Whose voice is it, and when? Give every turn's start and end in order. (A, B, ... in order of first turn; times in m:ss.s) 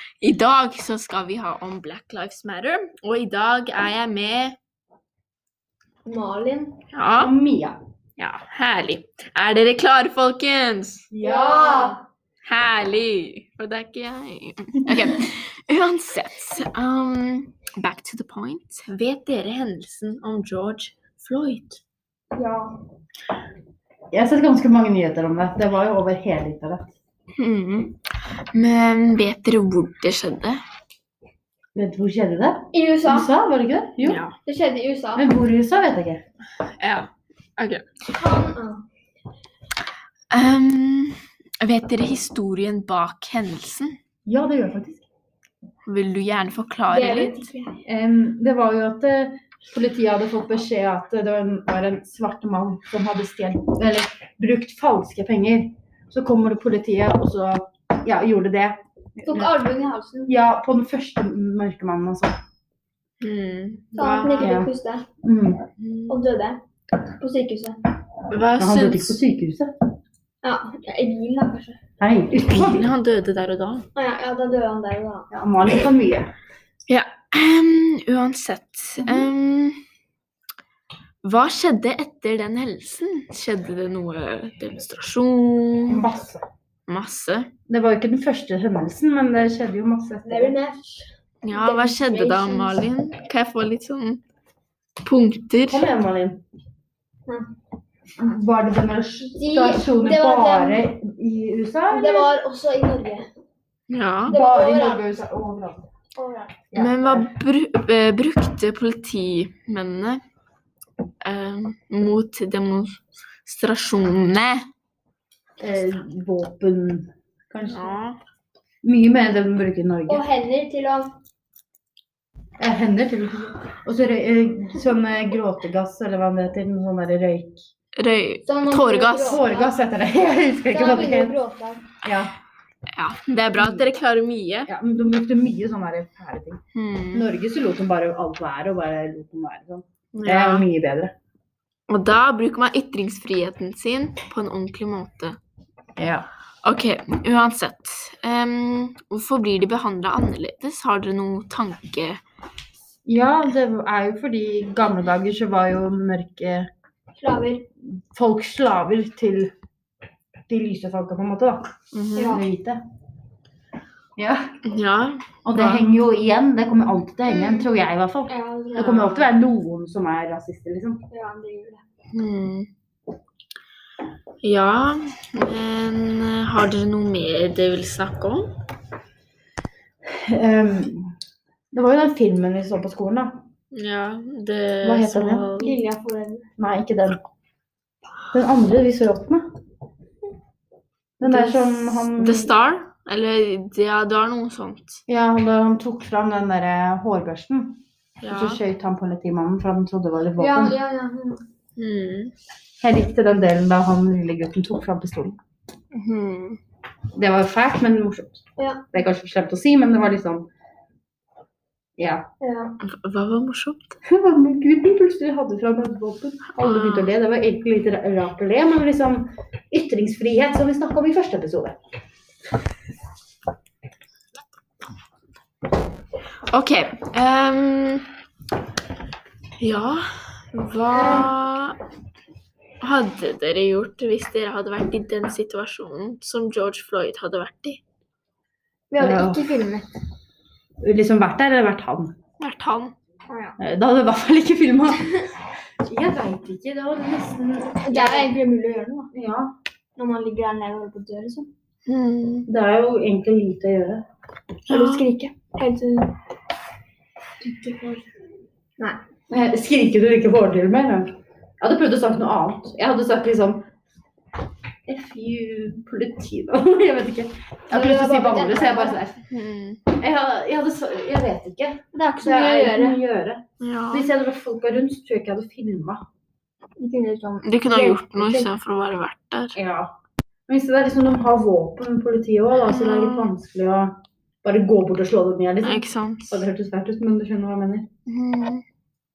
0:00.2-0:04.6 A
0:06.0-0:06.8 B
0:06.9-0:07.3 A
0:07.2-0:07.8 C
0:08.2-0:11.1 A
0:11.1-0:12.0 C
0:11.2-0:12.0 B
0:12.4-0:21.8 A
0:22.3-0:22.8 B
0:24.1-0:26.9 C
0:27.4-0:28.0 A
0:28.5-0:30.6 A
0:31.7-0:34.2 C
0:32.7-0:33.3 B
0:34.0-0:34.4 A
0:34.4-0:35.3 B
0:35.2-0:36.2 C
0:36.8-0:37.8 A
0:38.1-0:38.8 B
0:40.3-0:43.9 A
0:44.2-0:45.0 C
0:45.8-0:47.4 A
0:46.9-0:47.8 B
0:47.8-0:59.5 C
0:59.2-1:00.4 B
1:00.3-1:02.3 C
1:03.2-1:04.5 A
1:04.0-1:05.0 B
1:04.4-1:04.7 C
1:05.2-1:05.6 C
1:05.8-1:06.2 A
1:06.1-1:07.8 B
1:08.3-1:09.2 A
1:08.6-1:09.7 C
1:10.4-1:11.8 B
1:12.0-1:12.9 C
1:12.4-1:13.8 A
1:14.0-1:15.3 B
1:15.3-1:16.3 C
1:16.9-1:19.8 A
1:19.0-1:19.3 C
1:21.2-1:26.0 A
1:25.9-1:26.4 C
1:26.9-1:27.5 A
1:27.7-1:30.6 C
1:30.2-1:32.8 B
1:31.4-1:34.2 A
1:35.0-1:35.8 A
1:35.7-1:36.4 C
1:38.2-1:42.4 C
1:39.3-1:40.9 B
1:41.9-1:43.3 B
1:43.9-1:44.4 A
1:44.2-1:45.2 B
1:44.2-1:45.9 C
1:46.2-1:46.6 B
1:46.7-1:47.3 C
1:46.7-1:50.2 A
1:51.2-1:54.6 A
1:55.6-1:58.0 C
1:57.6-1:58.2 A
1:58.8-2:00.2 C
2:00.1-2:01.2 B
2:02.6-2:07.6 C
2:08.0-2:09.4 A
2:08.4-2:09.8 B
2:09.2-2:11.4 C
2:10.7-2:11.8 B
2:12.0-2:12.3 C
2:13.0-2:14.7 A
2:13.5-2:13.9 C
2:14.7-2:16.6 C
2:16.7-2:17.3 A
2:17.1-2:21.1 C
2:20.1-2:20.6 A
2:21.9-2:25.4 A
2:26.0-2:26.3 C
2:26.6-2:32.2 A
2:33.0-2:36.7 C
2:37.2-2:37.6 B
2:37.8-2:39.5 C
2:40.5-2:41.7 C
2:41.9-2:42.4 A
2:42.1-2:42.4 B
2:42.2-2:42.8 C
2:44.2-2:44.4 C
2:44.6-2:45.8 A
2:45.4-2:51.0 C
2:48.3-2:49.1 B
2:48.7-2:49.3 A
2:51.1-2:51.8 B
2:52.1-2:52.7 A
2:54.4-2:58.5 A
3:00.2-3:01.1 C
3:01.7-3:03.4 C
3:03.7-3:05.8 A
3:04.8-3:05.5 C
3:05.6-3:06.5 B
3:06.6-3:07.3 C
3:08.3-3:09.4 C
3:11.2-3:12.5 C
3:11.2-3:15.0 A
3:15.1-3:20.8 C
3:18.2-3:18.6 A
3:20.4-3:21.4 B
3:21.8-3:22.3 A
3:22.8-3:25.4 C
3:25.9-3:26.6 A
3:27.2-3:30.5 C
3:28.6-3:28.8 B
3:32.0-3:32.3 C
3:32.4-3:32.7 B
3:32.8-3:34.0 A
3:34.0-3:41.8 C
3:36.5-3:37.1 A
3:46.5-3:48.1 A
3:49.6-3:51.8 A
3:50.9-3:51.3 B
3:52.8-3:57.8 A
3:58.9-3:59.9 B
3:59.0-3:59.5 C
4:00.8-4:02.1 C
4:02.4-4:02.9 A
4:03.3-4:03.6 B
4:03.6-4:05.3 C
4:05.8-4:08.3 C
4:07.8-4:09.1 B
4:09.1-4:09.5 C
4:10.0-4:11.5 B
4:11.9-4:12.5 A
4:12.5-4:14.0 C
4:14.7-4:15.0 A
4:14.7-4:16.1 B
4:17.4-4:18.1 B
4:19.3-4:23.7 C
4:24.8-4:29.2 C
4:27.7-4:29.0 B
4:29.3-4:29.8 A
4:30.0-4:36.0 C
4:31.9-4:33.0 B
4:33.6-4:34.1 A
4:36.8-4:38.5 B
4:37.4-4:39.6 A
4:39.5-4:39.9 C
4:40.5-4:47.9 C
4:42.6-4:43.3 A
4:45.6-4:46.4 A
4:48.1-4:48.6 A